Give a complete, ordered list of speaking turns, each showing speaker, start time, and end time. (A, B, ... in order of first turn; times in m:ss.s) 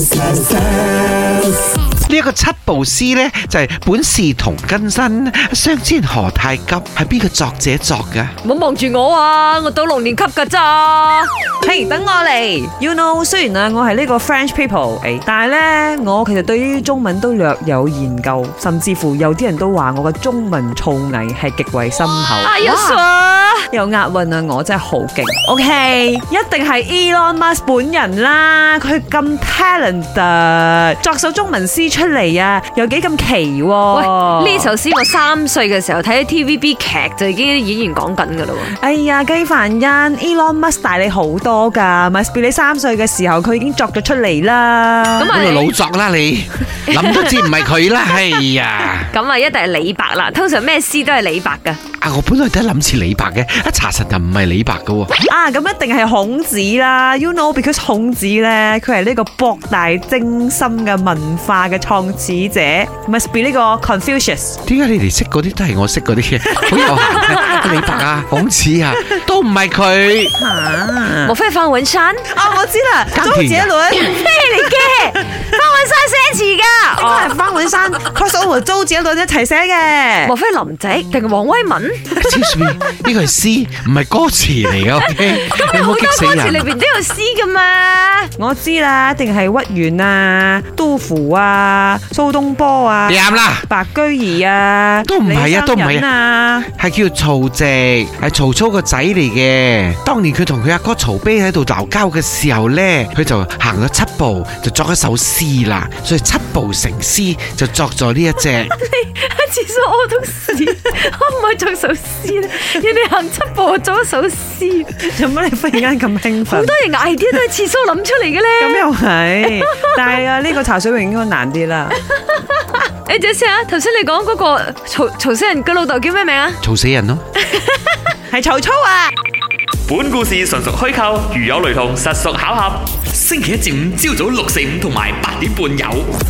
0:02.0-0:08.4 A
0:08.4-0:11.3 B
0:11.6-0:23.0 C
0:22.4-0:23.7 B
0:23.7-0:34.7 C
0:33.9-0:38.7 B
0:38.7-0:45.3 C
0:45.2-0:45.8 B
0:45.3-0:49.1 A
0:46.9-0:48.4 B
0:49.1-0:51.8 B
0:52.0-0:55.1 A
0:55.2-1:04.6 C
1:04.7-1:10.4 A
1:06.7-1:08.0 B
1:10.4-1:11.3 C
1:11.2-1:12.4 B
1:12.3-1:15.6 C
1:13.1-1:13.7 A
1:13.9-1:17.3 B
1:17.0-1:20.3 C
1:20.2-1:22.1 B
1:22.2-1:22.6 C
1:22.2-1:26.7 A
1:25.0-1:28.3 B
1:28.4-1:36.7 C
1:33.1-1:33.7 A
1:35.0-1:36.1 A
1:36.7-1:48.7 A
1:48.4-1:54.9 B
1:55.0-1:56.8 C
1:56.5-1:58.9 B
1:58.6-2:02.0 C
1:59.4-2:00.2 B
2:02.1-2:06.6 B
2:06.6-2:07.2 A
2:07.4-2:08.0 B
2:08.3-2:09.1 C
2:09.9-2:16.1 D